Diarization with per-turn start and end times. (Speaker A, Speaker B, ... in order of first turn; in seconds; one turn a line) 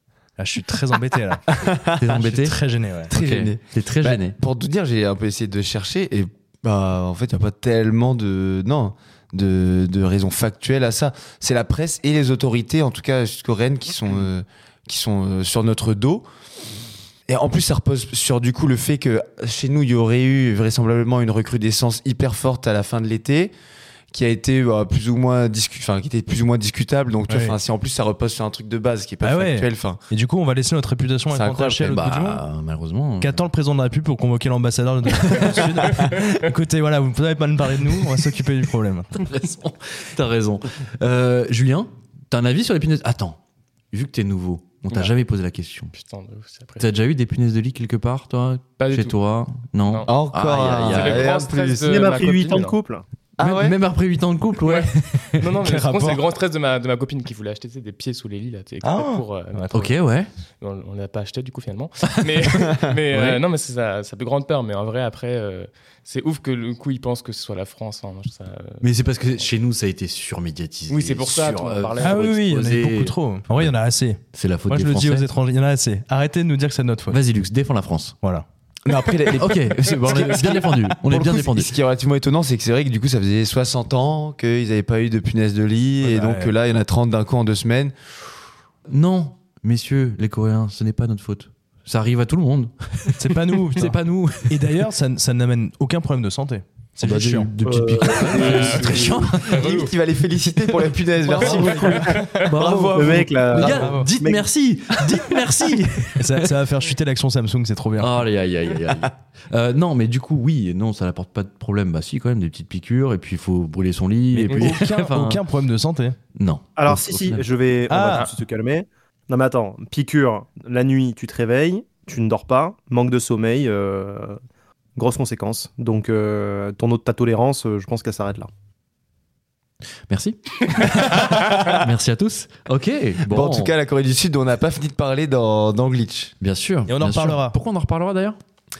Speaker A: 0.4-3.1
Speaker B: 1.6-2.1
Speaker C: 2.0-4.3
Speaker B: 3.1-16.2
Speaker B: 17.3-23.5
Speaker B: 24.1-30.0
Speaker A: 27.3-27.6
Speaker A: 29.2-32.4
Speaker B: 31.3-32.0
Speaker C: 31.9-33.4
Speaker A: 33.2-39.1
Speaker C: 35.1-35.9
Speaker D: 36.1-36.4
Speaker C: 39.1-43.4
Speaker C: 43.9-45.9
Speaker D: 45.9-46.9
Speaker C: 46.8-51.3
Speaker D: 48.8-49.1
Speaker D: 49.8-50.1
Speaker B: 50.1-51.9
Speaker D: 50.8-52.8
Speaker E: 51.8-53.0
Speaker B: 53.4-53.8
Speaker C: 53.4-55.5
Speaker D: 54.6-59.9
Speaker A: 55.6-56.2
Speaker A: 58.8-59.9
Speaker C: 59.7-60.3
Speaker D: 60.6-69.5
Speaker C: 62.1-62.4
Speaker C: 63.1-63.4
Speaker C: 68.8-73.7
Speaker D: 70.9-72.4
Speaker A: 72.0-77.2
Speaker C: 74.3-75.3
Speaker C: 77.1-78.2
Speaker B: 78.8-87.9
Speaker C: 79.3-81.7
Speaker A: 86.0-86.5
Speaker C: 88.9-94.6
Speaker A: 93.2-94.0
Speaker A: 94.5-97.5
Speaker C: 97.0-99.8
Speaker E: 97.6-99.2
Speaker D: 98.3-99.9
Speaker B: 99.4-104.0
Speaker A: 101.2-102.2
Speaker D: 101.3-102.5
Speaker E: 101.8-102.2
Speaker C: 102.3-106.5
Speaker E: 102.9-104.5
Speaker A: 103.7-104.1
Speaker A: 106.2-108.2
Speaker C: 108.0-115.4
Speaker A: 114.3-116.2
Speaker D: 114.4-114.8
Speaker C: 116.3-117.5
Speaker E: 116.8-124.4
Speaker A: 117.9-118.3
Speaker E: 125.0-128.5
Speaker C: 130.1-133.7
Speaker B: 133.3-136.3
Speaker C: 136.4-138.4
Speaker A: 136.8-137.6